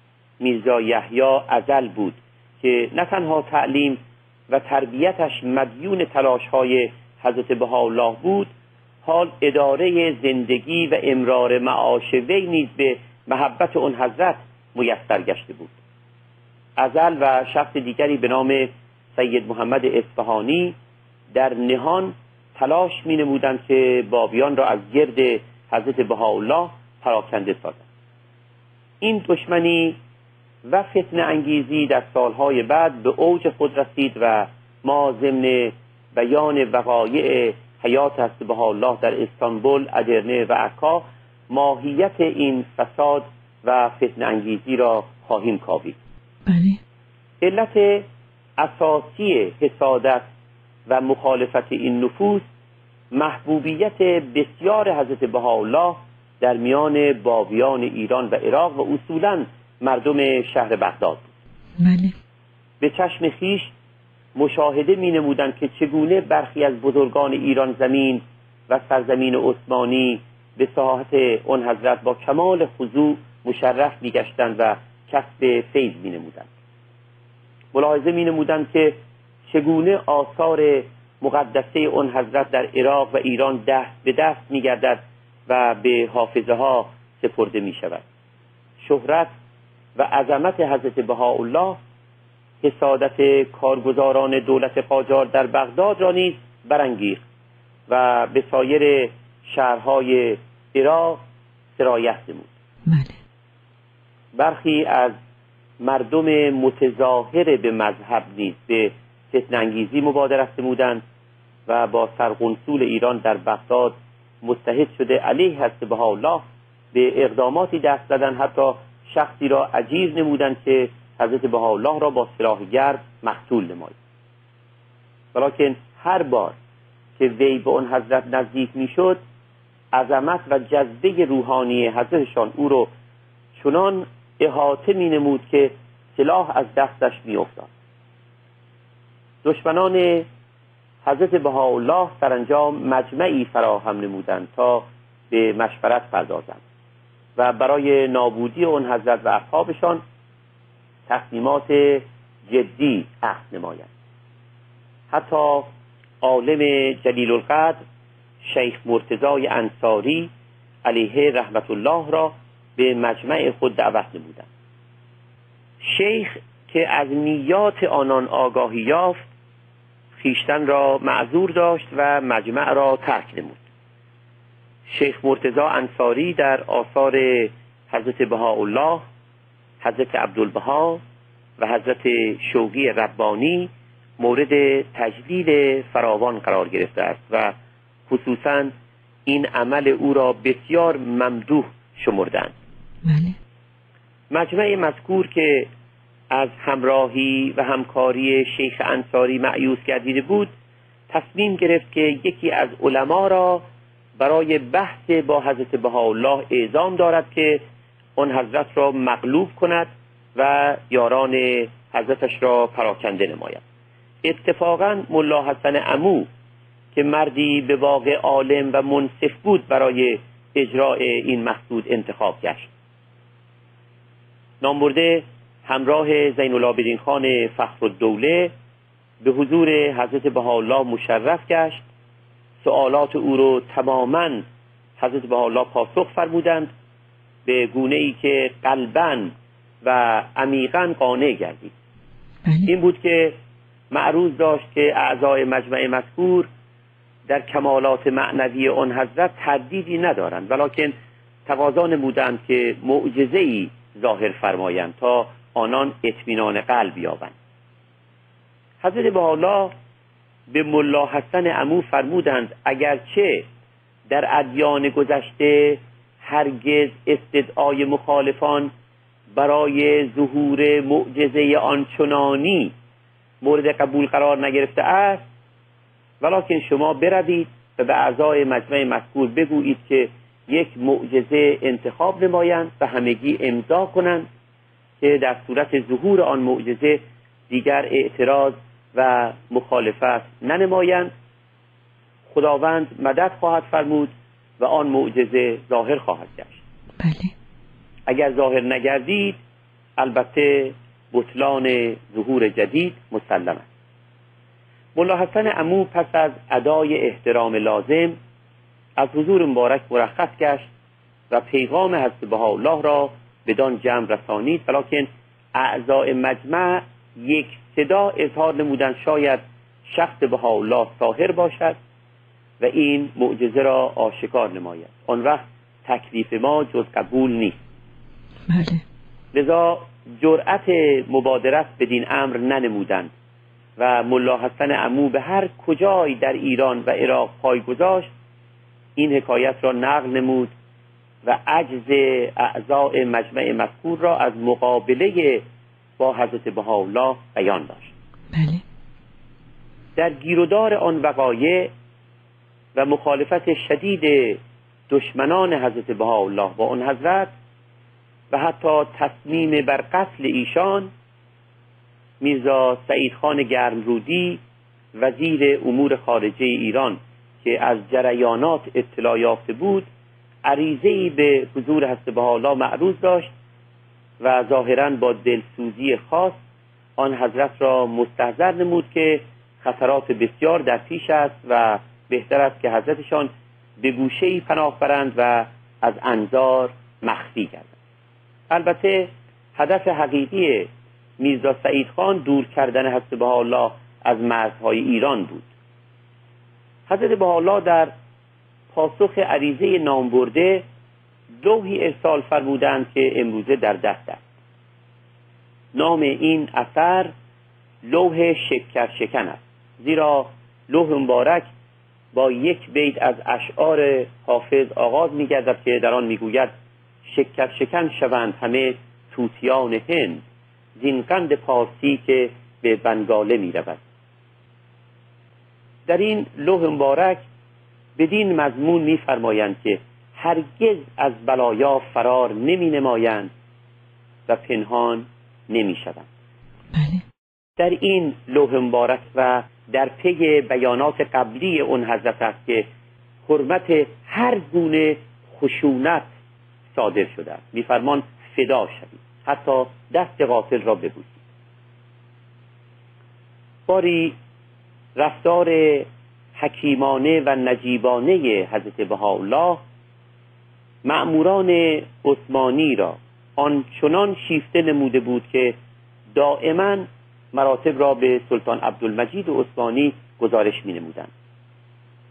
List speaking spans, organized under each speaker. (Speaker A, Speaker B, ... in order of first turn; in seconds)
Speaker A: 0.4-4.0, 4.5-8.5, 9.0-15.8, 16.8-20.8, 21.3-27.8, 29.0-30.0, 30.7-46.0, 47.4-48.0, 48.6-50.2, 50.9-52.5, 53.1-61.3, 62.8-63.7, 64.4-76.5, 77.7-78.9, 79.5-88.0, 88.8-89.3, 90.0-91.8, 92.6-97.2, 97.9-101.2, 101.8-102.5, 104.3-105.1, 105.8-111.0, 111.7-124.0, 125.3-126.5, 127.2-129.2, 129.9-132.9, 133.6-137.7, 139.4-140.3, 141.0-146.6, 147.4-150.0, 151.1-153.9, 155.1-155.7, 156.2-157.8, 158.4-160.3, 160.8-164.5, 165.8-169.2, 170.2-173.6, 174.8-179.0, 179.8-181.0, 181.6-187.5, 188.1-188.7, 189.3-192.5, 194.3-195.7, 196.3-200.5, 201.1-203.6, 204.2-207.6, 208.2-213.6, 214.2-216.3, 216.9-222.7, 224.6-228.5, 229.2-231.8, 232.6-234.4, 235.0-236.7, 237.5-241.7, 242.7-243.3, 243.9-246.5, 247.3-250.9, 251.5-257.4, 258.8-259.7, 260.5-263.5, 264.1-268.7, 269.3-272.7, 273.4-275.3, 276.2-284.3, 285.0-291.1, 292.3-296.6, 298.1-299.4, 300.0-303.7, 305.0-308.2, 309.0-310.7, 311.3-321.8, 322.6-327.6, 329.3-333.1, 333.8-338.1, 339.0-340.5, 341.2-345.4, 346.0-347.9, 350.0-351.7, 352.8-357.3, 358.3-360.9, 362.2-364.4, 364.9-369.9, 370.4-373.3, 374.2-376.4, 377.0-383.3, 383.8-387.7, 388.5-390.7, 391.2-395.5, 396.9-397.9, 398.7-400.6, 401.4-404.2, 405.7-407.1, 407.8-411.5, 412.1-416.5, 417.1-420.2, 420.8-423.8, 425.9-427.2, 428.0-433.3, 434.3-436.1, 437.6-442.7, 443.2-446.1, 446.7-451.2, 453.7-454.1, 455.0-459.6, 460.8-465.5, 466.1-471.1
Speaker B: 46.5-46.8, 61.8-62.1, 102.9-103.2, 193.1-193.4, 242.5-242.7, 297.0-297.3, 328.5-328.8, 348.3-348.6, 436.7-437.0